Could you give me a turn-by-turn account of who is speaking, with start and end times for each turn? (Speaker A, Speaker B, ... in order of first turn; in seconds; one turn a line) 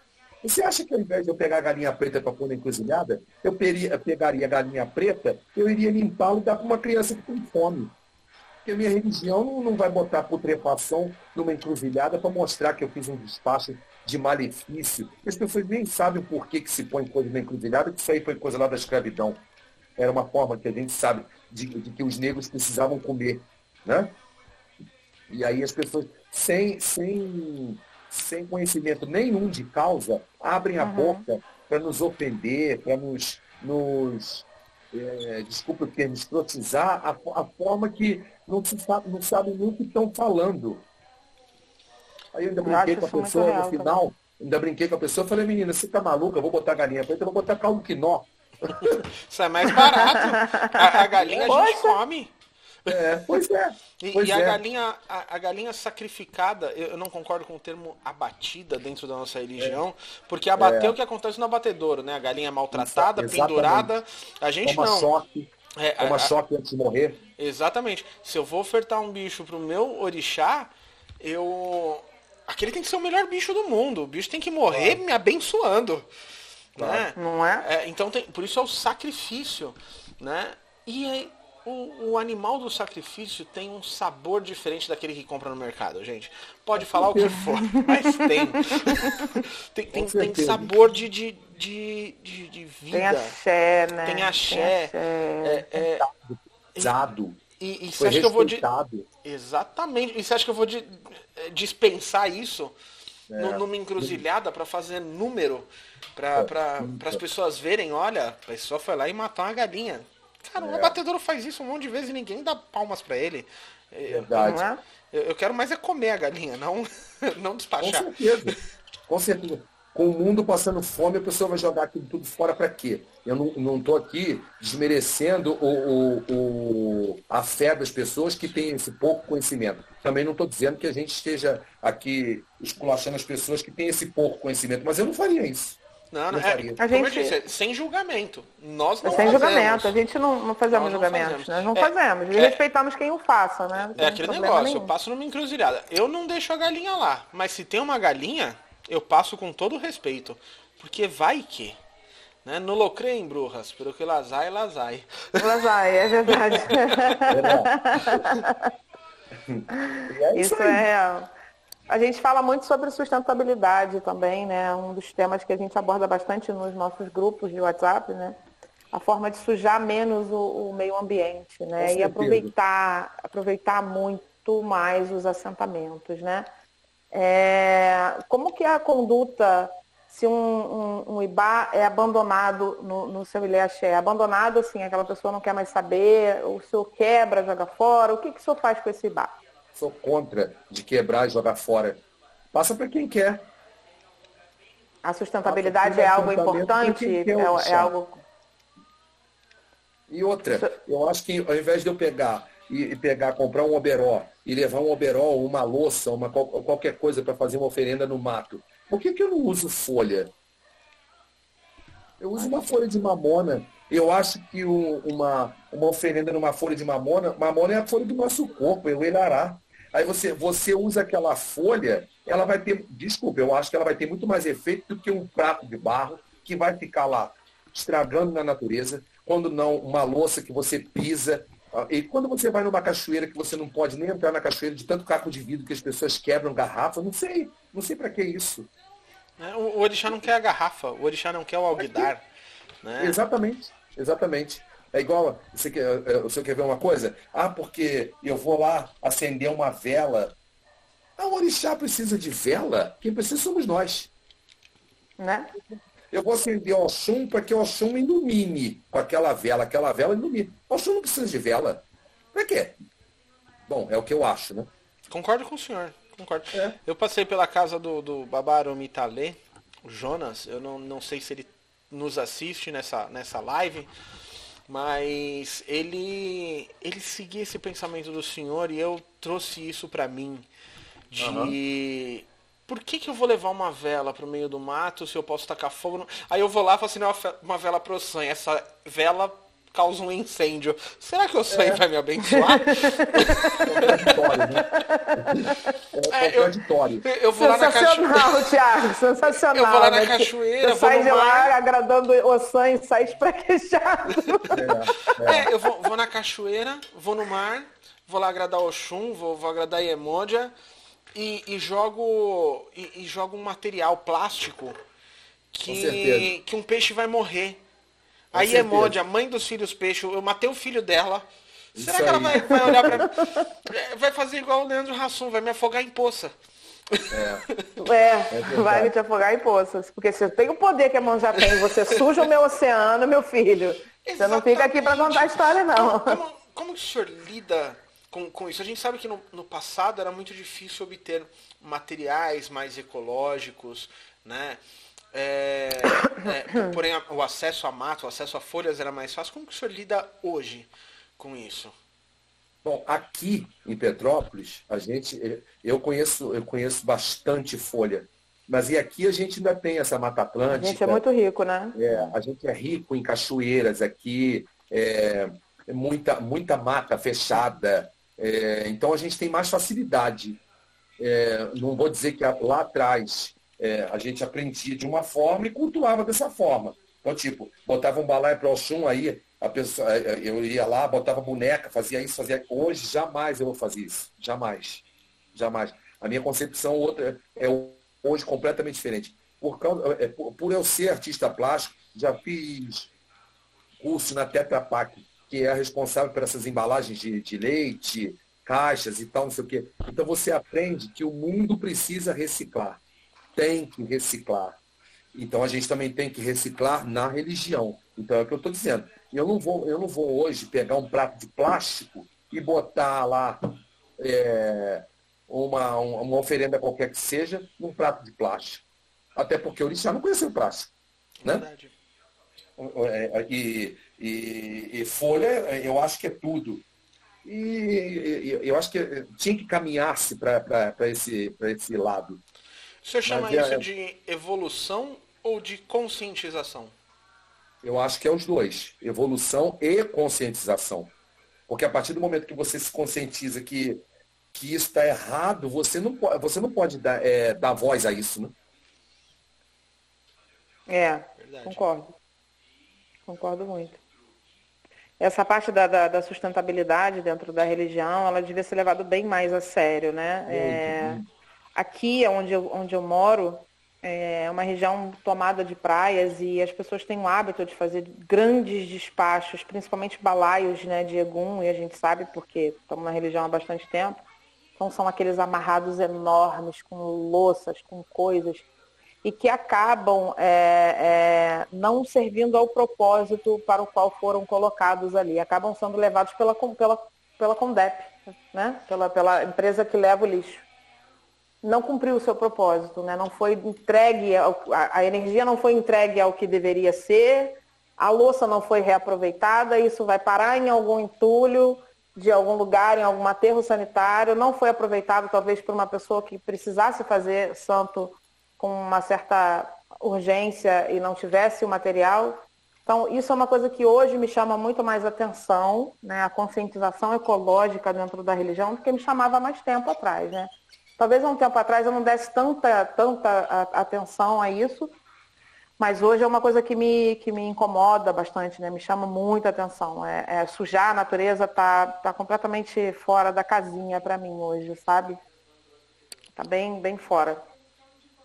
Speaker A: 0.4-8.0
Speaker A: 8.7-19.4
Speaker A: 20.0-24.1
Speaker A: 25.3-40.9
Speaker B: 30.8-31.2
Speaker A: 42.3-49.0
Speaker B: 42.6-44.0
Speaker C: 49.2-52.3
Speaker B: 49.7-52.0
Speaker A: 51.1-51.5
Speaker C: 52.9-53.1
Speaker A: 52.9-54.6
Speaker C: 54.0-65.1
Speaker A: 60.6-61.0
Speaker A: 62.7-64.0
Speaker A: 64.6-67.2
Speaker C: 65.8-66.3
Speaker C: 67.4-76.1
Speaker A: 74.7-75.0
Speaker C: 76.8-93.4
Speaker A: 76.8-77.1
Speaker B: 77.2-77.7
Speaker A: 86.8-87.4
Speaker B: 87.7-89.4
Speaker A: 89.9-90.8
Speaker B: 92.9-95.7
Speaker C: 94.0-96.1
Speaker A: 95.8-97.4
Speaker C: 97.6-98.7
Speaker A: 98.0-99.1
Speaker C: 99.2-102.8
Speaker A: 103.3-104.2
Speaker C: 103.3-118.5
Speaker A: 106.4-107.2
Speaker A: 110.6-111.0
Speaker A: 114.1-114.6
Speaker B: 114.3-114.8
Speaker A: 117.8-118.6
Speaker A: 119.1-135.8
Speaker C: 136.1-140.0
Speaker A: 136.3-136.8
Speaker B: 136.8-137.4
Speaker B: 139.0-144.9
Speaker A: 139.1-139.4
Speaker C: 140.7-142.6
Speaker C: 144.0-151.8
Speaker C: 152.4-155.5
Speaker B: 155.4-158.7
Speaker A: 157.3-158.2
Speaker A: 159.4-160.9
Speaker B: 159.7-161.3
Speaker B: 161.9-168.4
Speaker B: 168.9-176.5
Speaker A: 171.8-172.5
Speaker B: 177.1-189.3
Speaker A: 189.8-193.5
Speaker B: 195.0-198.2
Speaker A: 195.4-197.9
Speaker A: 200.1-210.3
Speaker B: 200.5-200.8
Speaker A: 212.2-238.7
Speaker C: 239.4-242.2
Speaker A: 241.8-242.1
Speaker C: 242.8-243.2
Speaker A: 243.0-250.4
Speaker A: 251.2-254.1
Speaker B: 255.2-255.5
Speaker A: 256.1-262.8
Speaker A: 263.7-264.7
Speaker C: 265.1-273.9
Speaker C: 274.7-280.5
Speaker C: 281.1-294.1
Speaker A: 281.2-281.6
Speaker A: 291.5-291.8
Speaker B: 292.3-295.7
Speaker A: 293.6-294.7
Speaker A: 295.2-297.1
Speaker C: 296.1-298.6
Speaker B: 297.4-304.6
Speaker C: 299.5-301.5
Speaker A: 304.5-305.5
Speaker C: 305.0-310.5
Speaker C: 311.1-314.8
Speaker C: 315.5-317.6
Speaker A: 315.7-316.3
Speaker A: 318.3-319.0
Speaker C: 318.3-323.1
Speaker A: 321.8-323.1
Speaker C: 323.7-326.3
Speaker C: 326.9-327.6
Speaker A: 327.1-327.5
Speaker B: 327.8-336.2
Speaker A: 328.3-328.9
Speaker C: 334.1-344.6
Speaker C: 345.1-351.8
Speaker A: 352.6-361.0
Speaker B: 360.5-361.8
Speaker A: 361.8-370.4
Speaker A: 371.0-392.9
Speaker A: 393.8-402.8
Speaker A: 403.4-404.6
Speaker A: 405.1-413.4
Speaker A: 414.0-418.6
Speaker A: 419.2-420.7
Speaker C: 421.2-421.7
Speaker A: 422.6-426.6
Speaker A: 427.2-432.2
Speaker C: 432.8-436.7
Speaker A: 433.1-433.7
Speaker A: 437.6-440.9
Speaker A: 441.5-443.8
Speaker A: 444.3-448.3
Speaker B: 450.7-452.0
Speaker C: 451.2-451.6
Speaker B: 453.1-453.8
Speaker B: 455.0-461.0
Speaker A: 460.3-461.1
Speaker B: 461.6-474.1
Speaker B: 474.6-478.5
Speaker B: 479.0-490.5
Speaker B: 491.4-524.8
Speaker B: 525.6-535.0
Speaker B: 536.2-537.2